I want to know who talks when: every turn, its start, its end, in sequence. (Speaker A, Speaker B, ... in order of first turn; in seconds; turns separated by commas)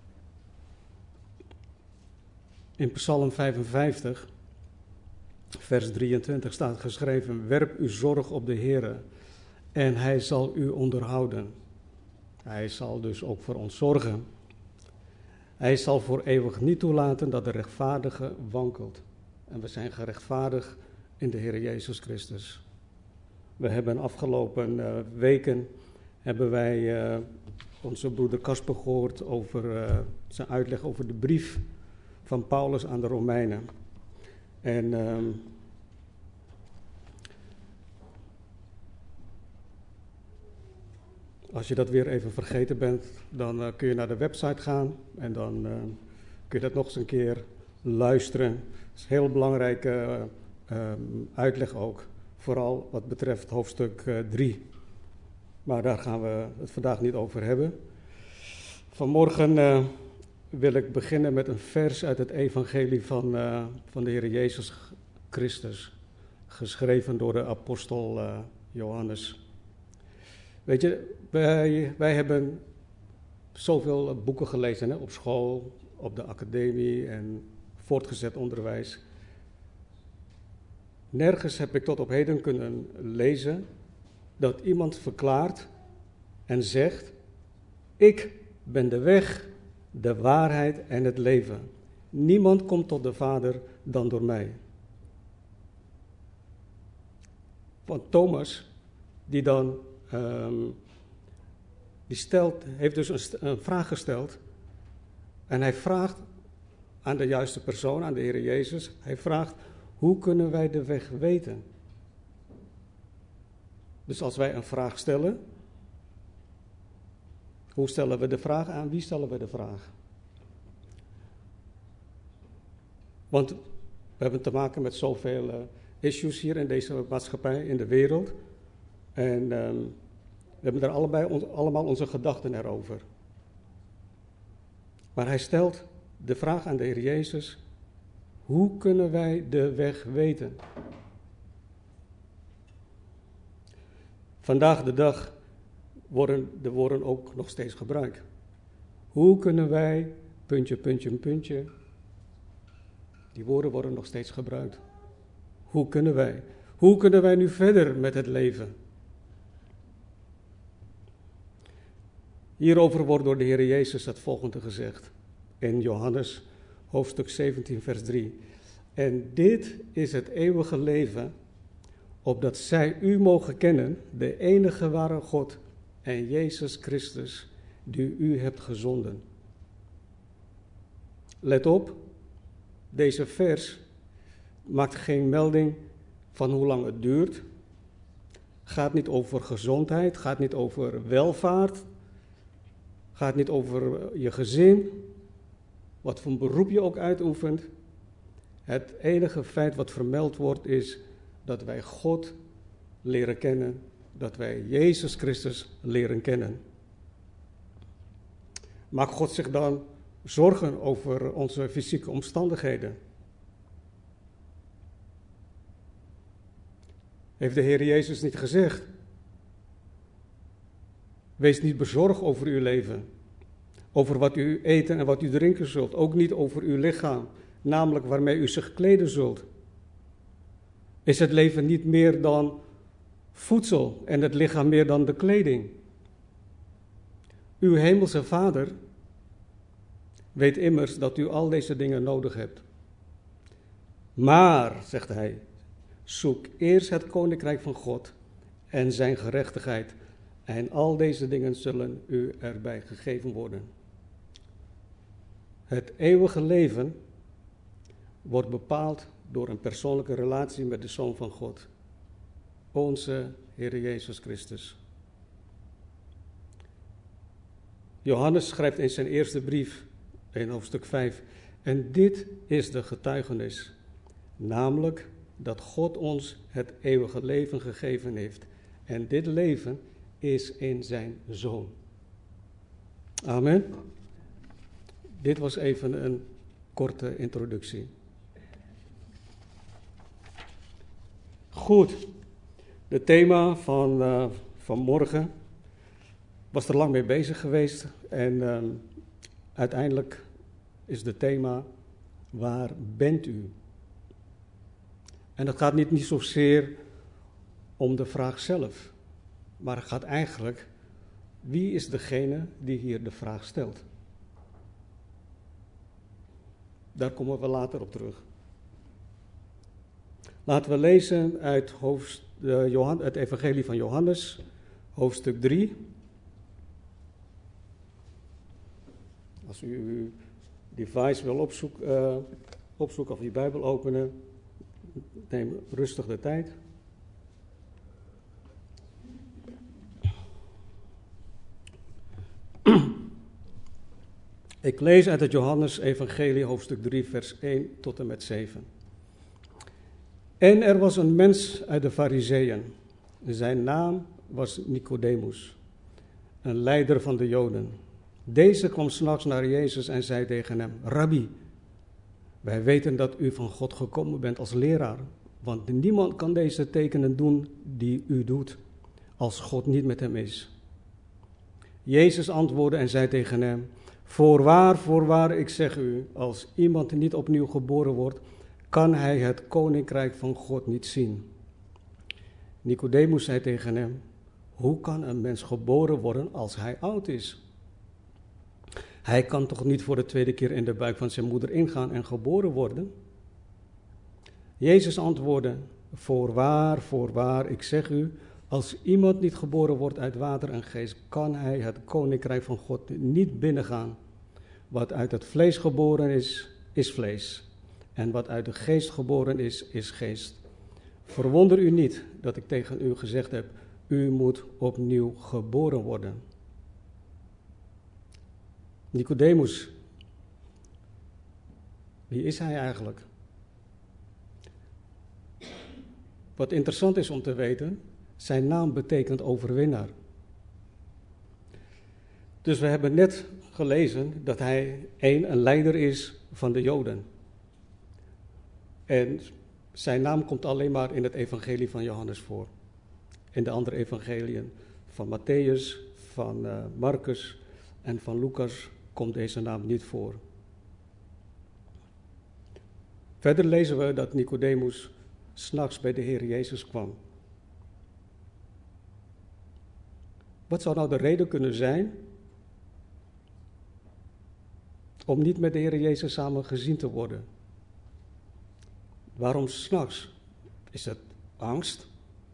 Speaker A: 2.8-4.3, Speaker A: 5.6-9.0, Speaker A: 9.7-11.5, Speaker A: 12.4-14.2, Speaker A: 15.6-22.6, Speaker A: 23.6-25.7, Speaker A: 26.2-27.2, Speaker A: 27.8-31.6, Speaker A: 32.2-33.6, Speaker A: 34.6-35.5, Speaker A: 41.5-46.0, Speaker A: 46.5-54.6, Speaker A: 55.6-57.7, Speaker A: 58.9-60.0, Speaker A: 60.5-65.9, Speaker A: 66.5-69.4, Speaker A: 70.7-72.6, Speaker A: 73.5-79.0, Speaker A: 81.1-83.6, Speaker A: 84.4-85.7, Speaker A: 86.5-87.2, Speaker A: 88.0-94.6, Speaker A: 97.8-98.7, Speaker A: 99.3-100.8, Speaker A: 102.1-104.4, Speaker A: 105.5-106.2, Speaker A: 107.0-111.6, Speaker A: 114.0-115.4, Speaker A: 117.7-119.9, Speaker A: 123.3-123.6, Speaker A: 124.2-128.3, Speaker A: 129.2-130.0, Speaker A: 130.6-133.0, Speaker A: 135.1-137.6, Speaker A: 138.5-140.6, Speaker A: 144.4-145.3, Speaker A: 146.1-148.2, Speaker A: 149.1-151.7, Speaker A: 153.3-154.8, Speaker A: 155.7-158.7, Speaker A: 162.6-168.4, Speaker A: 168.9-171.3, Speaker A: 172.2-179.2, Speaker A: 181.4-182.0, Speaker A: 182.9-183.8, Speaker A: 184.7-185.8, Speaker A: 186.3-187.4, Speaker A: 188.7-191.8, Speaker A: 193.1-195.1, Speaker A: 196.0-197.7, Speaker A: 198.7-202.3, Speaker A: 203.0-206.6, Speaker A: 208.9-212.9, Speaker A: 217.4-218.9, Speaker A: 221.4-223.1, Speaker A: 223.9-229.4, Speaker A: 231.0-232.6, Speaker A: 233.3-235.8, Speaker A: 237.6-238.7, Speaker A: 240.3-242.6, Speaker A: 244.2-245.4, Speaker A: 246.1-248.1, Speaker A: 248.7-249.9, Speaker A: 250.5-253.7, Speaker A: 255.7-256.9, Speaker A: 258.2-261.7, Speaker A: 262.7-264.8, Speaker A: 268.0-273.7, Speaker A: 274.4-281.7, Speaker A: 283.2-283.7, Speaker A: 285.2-287.9, Speaker A: 291.5-292.1, Speaker A: 292.9-295.3, Speaker A: 296.5-298.8, Speaker A: 299.5-300.2, Speaker A: 300.9-301.7, Speaker A: 302.3-303.5, Speaker A: 305.4-306.8, Speaker A: 307.8-308.9, Speaker A: 309.6-310.7, Speaker A: 311.4-313.8, Speaker A: 316.9-318.2, Speaker A: 320.4-324.4, Speaker A: 324.9-325.7, Speaker A: 329.4-330.1, Speaker A: 330.7-334.1, Speaker A: 335.3-336.5, Speaker A: 344.6-348.7, Speaker A: 350.4-352.7, Speaker A: 353.2-355.6, Speaker A: 356.4-361.3, Speaker A: 362.4-368.6, Speaker A: 369.2-370.5, Speaker A: 371.8-381.2, Speaker A: 382.6-384.0, Speaker A: 384.6-387.4, Speaker A: 389.0-392.9, Speaker A: 394.6-404.0, Speaker A: 404.7-410.4, Speaker A: 411.1-416.2, Speaker A: 418.9-419.7, Speaker A: 422.1-423.1, Speaker A: 426.4-429.9, Speaker A: 432.4-437.1, Speaker A: 438.9-442.5, Speaker A: 443.3-450.2, Speaker A: 453.2-457.0, Speaker A: 460.5-462.0, Speaker A: 465.1-467.2, Speaker A: 469.2-470.1, Speaker A: 470.7-471.9